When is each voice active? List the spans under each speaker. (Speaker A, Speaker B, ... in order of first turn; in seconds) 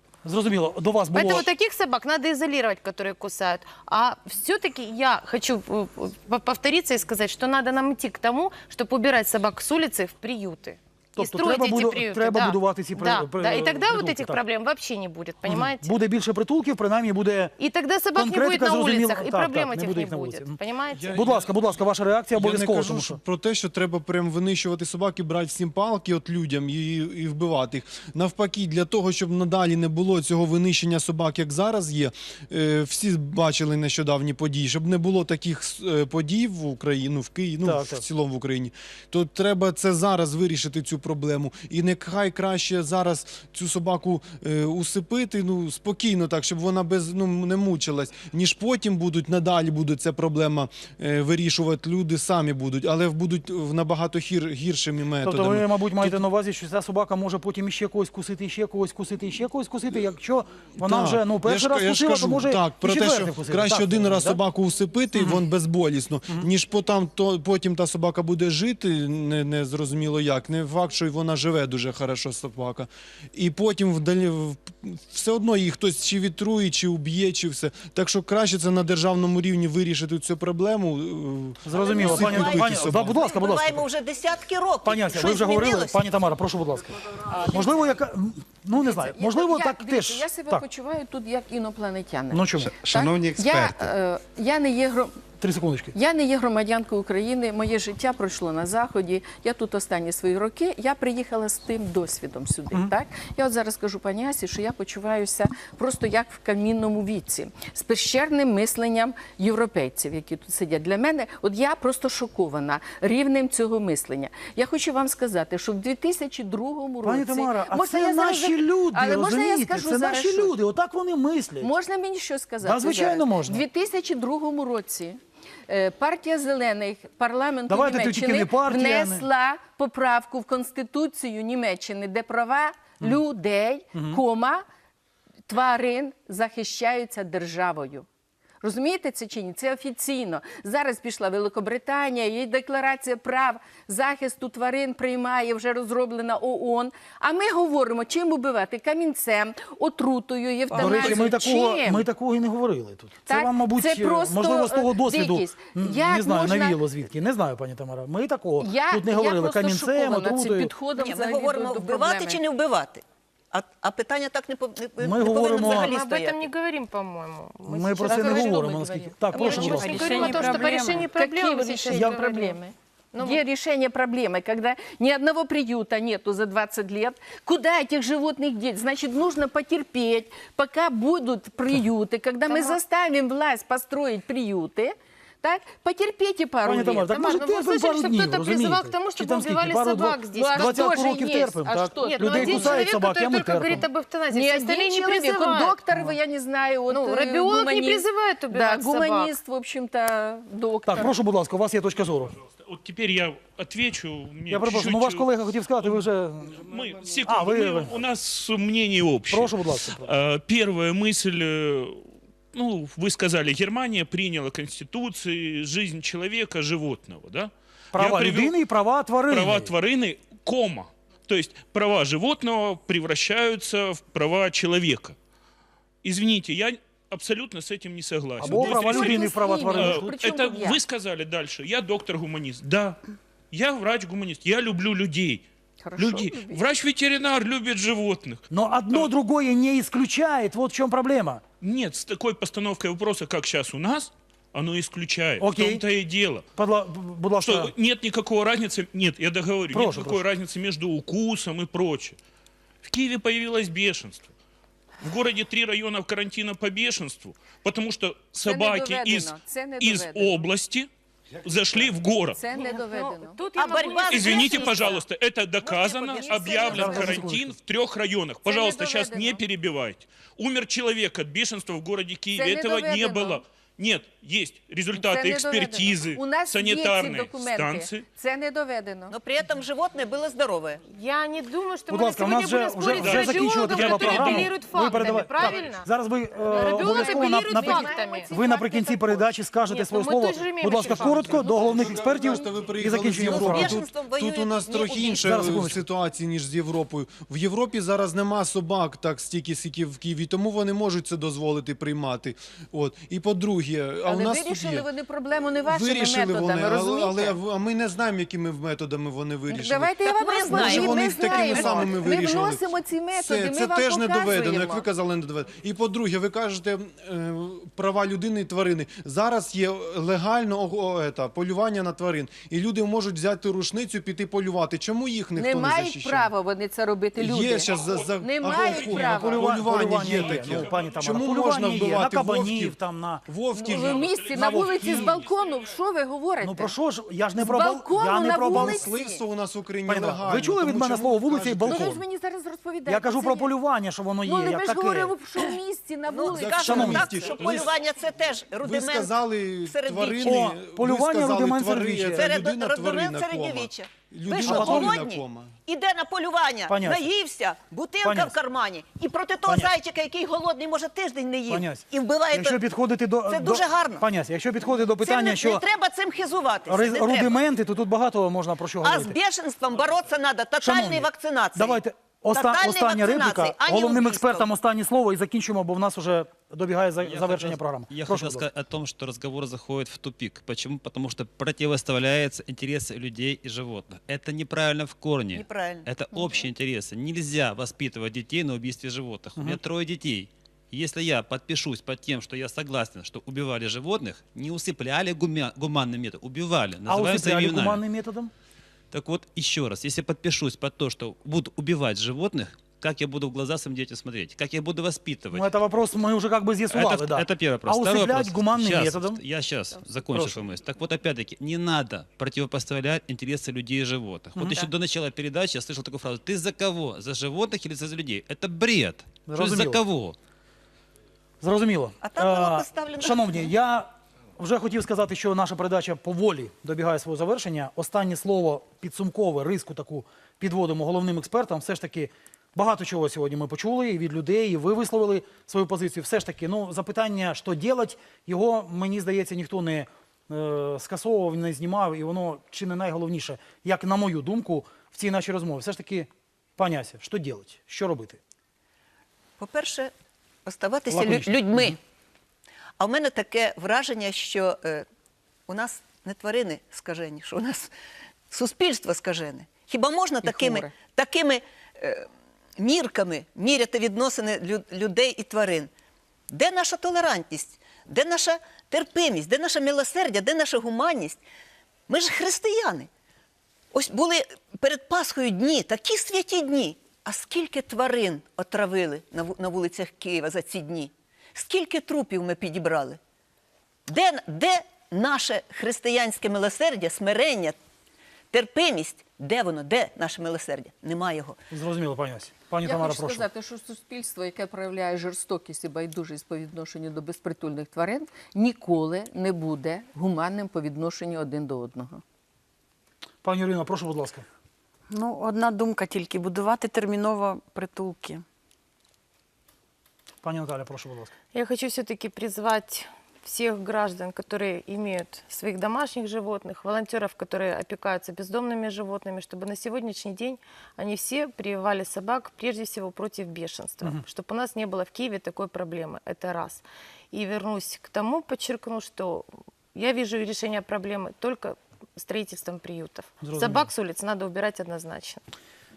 Speaker A: 0.2-1.5, 11.2-14.4, 15.4-17.5, 18.1-20.6, 21.1-23.2, 37.6-38.0, 55.2-64.4, 81.6-83.8, 84.8-90.6, 92.3-92.7, 95.4-95.9, 117.0-121.7, 122.6-123.6, 127.7-129.3, 133.9-134.2, 150.7-160.7, 165.0-165.9, 167.7-170.0, 186.6-193.8, 195.9-196.2, 200.8-202.3, 204.5-206.6, 207.2-207.9, 209.3-210.1, 217.9-219.7, 228.4-230.1, 238.5-241.4, 245.4-245.8, 246.6-247.7, 249.7-250.2, 266.7-267.5, 281.9-293.8, 295.2-295.8, 328.7-333.2, 334.2-335.2, 336.4-338.8, 339.9-342.0, 342.9-345.1, 346.6-347.1, 350.2-352.3, 354.4-355.0, 356.7-357.1, 358.0-358.3, 359.4-359.7, 361.5-365.6, 366.7-369.2, 370.6-378.4, 396.9-398.3, 405.3-409.2, 410.1-410.4, 419.3-419.8, 421.4-448.2, 450.9-451.8, 491.5-493.3, 503.2-504.2, 510.2-511.1, 533.2-533.7
Speaker B: 1.1-15.9, 17.6-21.2, 165.3-172.6, 173.1-173.4, 182.5-182.8, 187.1-191.0, 192.0-195.8, 196.9-199.3, 262.5-265.0, 265.6-267.2, 280.9-285.9, 286.4-288.3, 289.7-291.9, 511.3-535.2
Speaker C: 20.9-21.8, 22.3-56.2, 60.8-83.3, 92.6-93.9, 290.9-304.9, 305.6-312.6, 313.1-326.3, 327.1-334.4, 338.4-342.0, 346.2-347.8, 348.6-355.5
Speaker D: 81.7-86.0, 160.9-166.5, 263.6-265.0, 279.1-280.8, 293.2-295.6, 310.0-311.9, 346.1-350.4, 352.1-362.6, 363.2-364.1, 365.0-367.4, 368.8-371.8, 372.3-374.5, 385.3-385.9, 414.4-414.7, 422.0-423.3, 449.4-449.9, 450.4-451.8, 452.8-454.8, 455.5-457.7, 458.3-462.1, 462.6-465.7, 466.3-471.2, 471.9-472.9, 473.7-483.0, 483.9-487.6, 488.3-491.4
Speaker E: 88.7-95.2, 95.9-120.5, 121.6-134.6, 135.5-138.1, 138.6-152.1, 153.3-156.8, 158.6-162.4, 168.0-187.3, 190.3-193.0, 194.3-201.2, 228.4-230.8, 235.8-236.6, 258.4-260.5, 262.3-263.4, 266.1-267.2, 268.4-269.4, 272.3-273.4, 274.9-279.1, 285.3-285.6, 286.4-289.3, 291.3-292.6, 304.0-307.4, 309.5-314.9, 325.4-329.6, 333.5-336.7, 337.3-339.2, 341.7-343.5, 344.2-347.3, 460.2-460.7, 492.6-502.0
Speaker F: 169.4-171.1, 504.9-508.2
Speaker G: 202.6-205.3, 206.6-218.6, 219.3-225.2, 226.0-233.0, 233.5-235.4, 235.9-239.1, 241.6-246.4, 247.4-252.2, 252.8-254.3, 255.0-260.9, 261.4-262.4, 264.1-278.1, 282.9-285.1, 327.7-328.1, 328.6-329.0, 330.0-331.0, 333.9-335.4
Speaker H: 377.0-397.8, 398.9-405.5, 406.7-420.1